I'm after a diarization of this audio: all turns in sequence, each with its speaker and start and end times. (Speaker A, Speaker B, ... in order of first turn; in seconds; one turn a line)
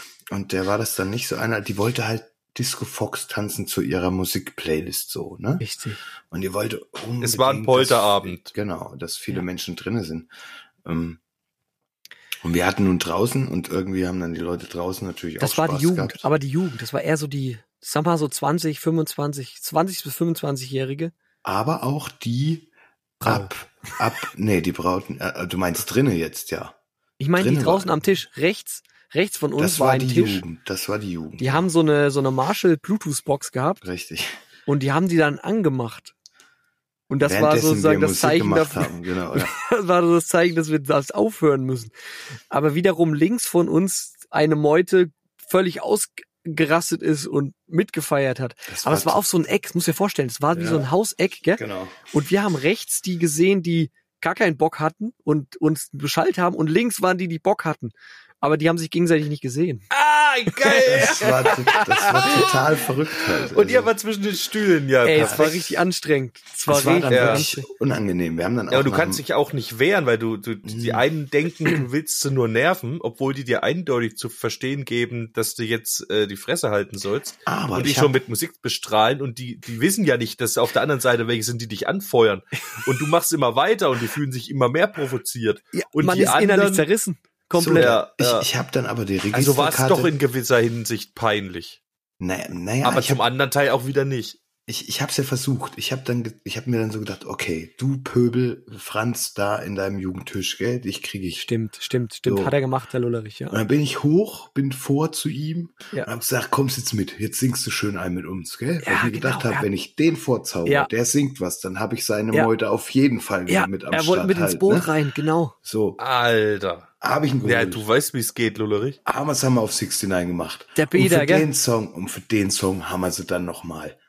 Speaker A: 0.3-5.6
Speaker B: 5.6-6.0
Speaker A: 6.3-10.3
Speaker C: 7.2-8.5
Speaker A: 10.8-11.2
Speaker A: 12.4-16.3
Speaker B: 15.4-21.1
Speaker A: 21.4-22.7
Speaker B: 23.2-23.5
Speaker A: 23.2-26.8
Speaker B: 27.2-30.4
Speaker A: 27.4-28.0
Speaker A: 29.6-31.7
Speaker B: 31.4-33.8
Speaker A: 33.8-34.4
Speaker B: 34.7-36.1
Speaker B: 37.1-41.9
Speaker A: 37.2-39.5
Speaker B: 42.5-59.9
Speaker A: 48.7-49.2
Speaker A: 50.5-50.9
Speaker A: 51.5-52.0
Speaker C: 59.9-61.5
Speaker B: 60.6-62.4
Speaker A: 60.8-63.9
Speaker C: 62.1-62.6
Speaker C: 63.2-65.8
Speaker B: 65.0-67.7
Speaker A: 65.2-65.5
Speaker A: 66.7-69.2
Speaker C: 67.1-67.5
Speaker C: 68.7-86.9
Speaker A: 70.6-71.0
Speaker A: 77.5-78.2
Speaker B: 86.0-88.0
Speaker A: 87.5-90.1
Speaker C: 87.7-88.5
Speaker C: 89.3-91.8
Speaker A: 92.2-93.2
Speaker C: 92.8-94.4
Speaker A: 94.7-101.5
Speaker B: 101.4-103.6
Speaker A: 102.2-102.5
Speaker A: 103.5-114.9
Speaker B: 108.8-109.7
Speaker B: 113.5-115.5
Speaker A: 115.6-116.0
Speaker C: 116.0-116.9
Speaker A: 117.0-117.8
Speaker C: 117.4-119.0
Speaker A: 119.0-124.0
Speaker B: 120.8-121.5